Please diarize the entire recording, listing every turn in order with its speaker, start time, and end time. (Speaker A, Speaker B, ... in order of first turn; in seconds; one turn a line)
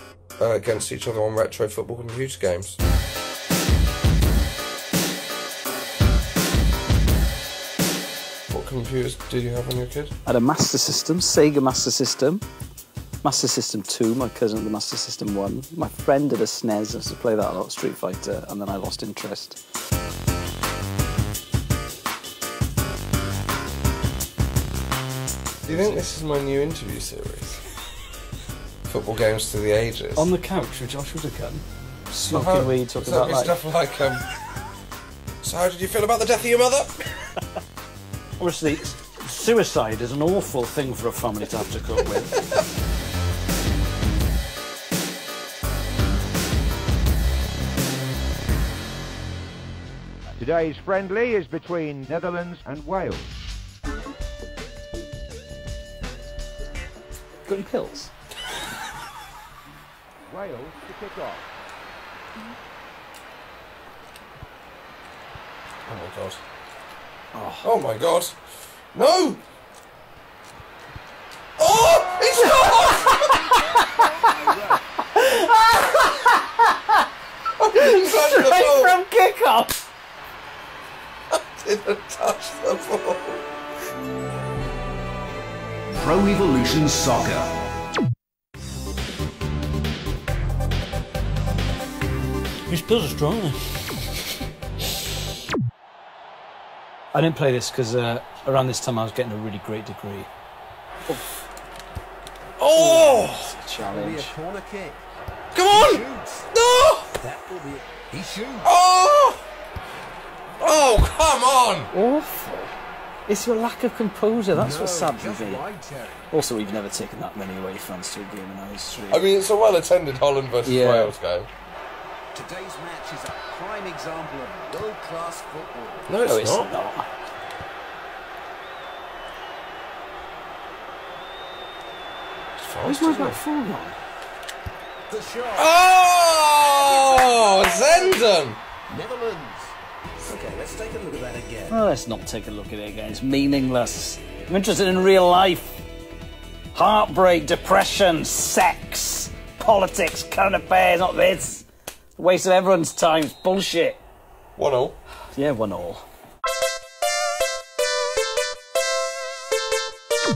Speaker A: 0.4-2.8
Speaker A: 8.5-10.1
Speaker B: 10.2-12.4
Speaker B: 13.2-19.6
Speaker B: 25.7-26.0
Speaker A: 25.7-27.6
Speaker A: 28.9-30.3
Speaker B: 30.1-33.6
Speaker A: 32.3-34.2
Speaker A: 35.4-36.9
Speaker B: 38.4-42.4
Speaker C: 50.4-53.3
Speaker B: 57.4-58.1
Speaker C: 60.3-61.5
Speaker A: 65.8-66.4
Speaker B: 67.3-67.7
Speaker A: 67.6-68.3
Speaker A: 68.9-69.4
Speaker A: 71.6-73.5
Speaker B: 73.5-73.9
Speaker D: 73.8-74.8
Speaker B: 75.0-77.0
Speaker A: 77.6-79.0
Speaker B: 77.7-79.8
Speaker A: 81.3-83.4
Speaker D: 86.0-87.5
Speaker B: 92.7-93.8
Speaker B: 97.1-100.3
Speaker A: 102.6-103.5
Speaker B: 102.7-104.3
Speaker D: 103.8-105.0
Speaker A: 105.5-107.2
Speaker D: 105.7-106.5
Speaker D: 107.2-108.7
Speaker A: 108.6-109.4
Speaker A: 110.6-111.9
Speaker B: 111.9-112.7
Speaker B: 113.3-115.6
Speaker D: 114.5-116.3
Speaker B: 116.3-119.2
Speaker A: 119.1-121.5
Speaker B: 120.6-121.1
Speaker D: 122.3-126.1
Speaker A: 126.1-126.7
Speaker B: 126.2-127.1
Speaker A: 132.6-133.4
Speaker B: 132.8-134.0
Speaker D: 135.1-135.8
Speaker A: 135.5-138.6
Speaker D: 136.6-138.2
Speaker D: 138.9-141.8
Speaker B: 141.7-145.7
Speaker B: 146.7-151.6
Speaker B: 152.2-154.0
Speaker A: 154.6-155.0
Speaker B: 155.3-156.0